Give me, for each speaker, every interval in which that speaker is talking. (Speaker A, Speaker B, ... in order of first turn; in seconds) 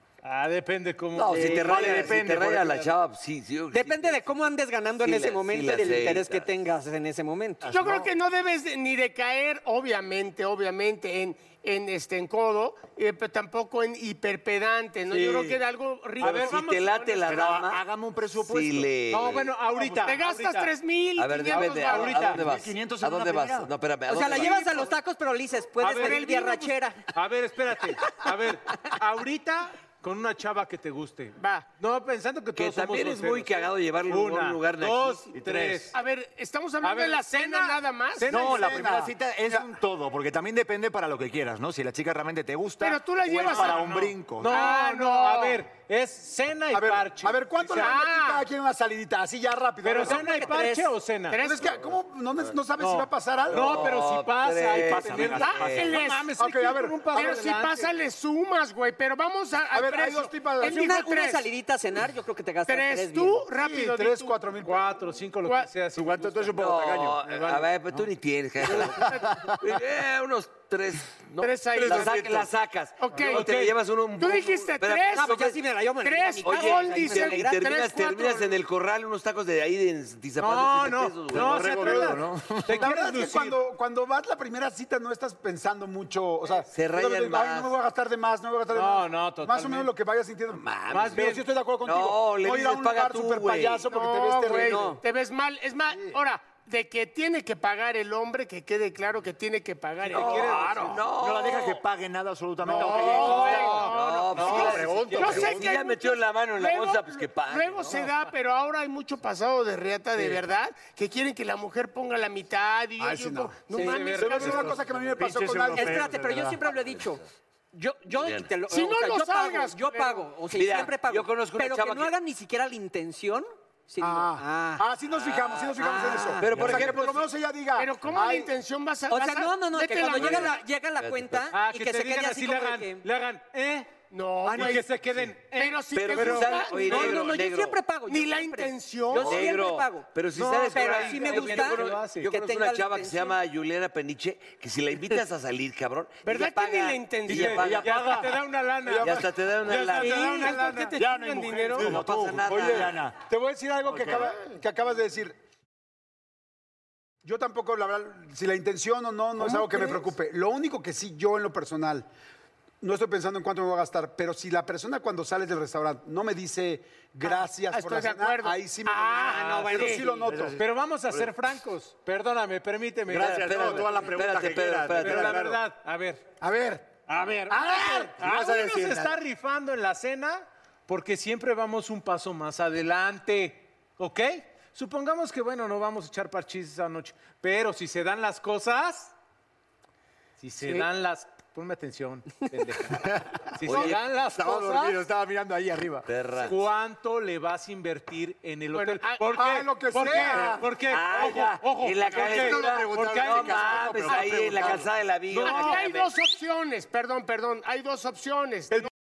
Speaker A: 0.2-2.0, 16.2-17.2, 19.1-20.7, 21.5-22.5, 24.3-24.9, 25.8-36.0, 36.8-38.9, 43.3-48.4, 49.8-51.5, 52.8-58.0, 64.6-67.7, 71.7-72.5, 73.1-73.8, 80.4-83.6, 88.7-89.9, 90.9-91.5, 100.0-101.1, 102.7-105.5, 113.7-114.8, 131.5-137.3, 139.1-139.4, 140.3-142.3, 147.3-151.1, 169.0-174.1, 174.9-176.3, 177.5-189.1, 190.4-195.0, 196.4-204.7, 205.3-205.8
Speaker B: 1.1-4.3, 5.0-6.5, 16.2-17.8, 18.4-19.5, 21.2-24.9, 32.5-35.9, 53.5-56.0, 66.5-75.6, 76.4-82.2, 86.7-87.7, 90.5-94.0, 94.5-95.0, 100.2-101.8, 102.7-108.1, 116.0-117.2, 118.2-118.5, 120.5-122.1, 125.2-127.3, 130.0-131.5, 135.9-137.8, 139.2-148.3, 148.9-150.6, 151.8-153.0, 173.1-175.4, 193.6-194.0, 196.1-196.6, 200.9-206.1
Speaker C: 1.3-2.9, 7.7-8.1, 17.2-19.1, 22.1-23.7, 38.3-44.6, 54.8-55.9, 65.9-67.3, 68.8-69.2, 81.3-82.9, 100.2-105.8, 114.4-116.6, 134.5-134.8, 147.3-148.3, 151.0-153.2, 153.9-154.3, 170.2-171.3, 173.1-175.6, 177.1-179.2, 192.9-196.1, 202.1-204.9
Speaker D: 3.7-7.6, 24.1-27.1, 50.0-50.9, 60.6-63.4, 75.0-77.6, 115.7-117.2, 117.7-124.8, 125.8-127.1, 129.1-133.1, 136.7-140.1, 140.6-143.4
Speaker E: 7.6-17.2, 19.6-22.3, 31.4-31.7, 35.9-38.5, 42.8-45.6, 47.7-48.4, 51.3-51.7, 55.4-56.3, 57.1-61.5, 62.7-64.5, 65.5-65.7, 71.4-72.3, 73.0-73.5, 74.2-78.5, 93.9-100.8, 103.0-114.7, 118.7-120.3, 127.8-130.6, 134.1-135.0, 135.5-137.1, 138.1-139.4, 146.2-147.6, 150.0-151.9, 159.4-159.9, 167.3-170.1, 198.7-199.3, 205.4-208.9
Speaker F: 38.4-39.7, 46.7-50.5, 51.3-53.9, 56.4-57.5, 59.7-61.0, 63.5-64.9, 82.7-95.0, 95.9-96.2, 113.0-116.0, 124.0-128.5, 148.9-149.2, 152.5-155.4, 157.2-162.1, 162.8-170.6, 176.4-176.8, 199.3-200.7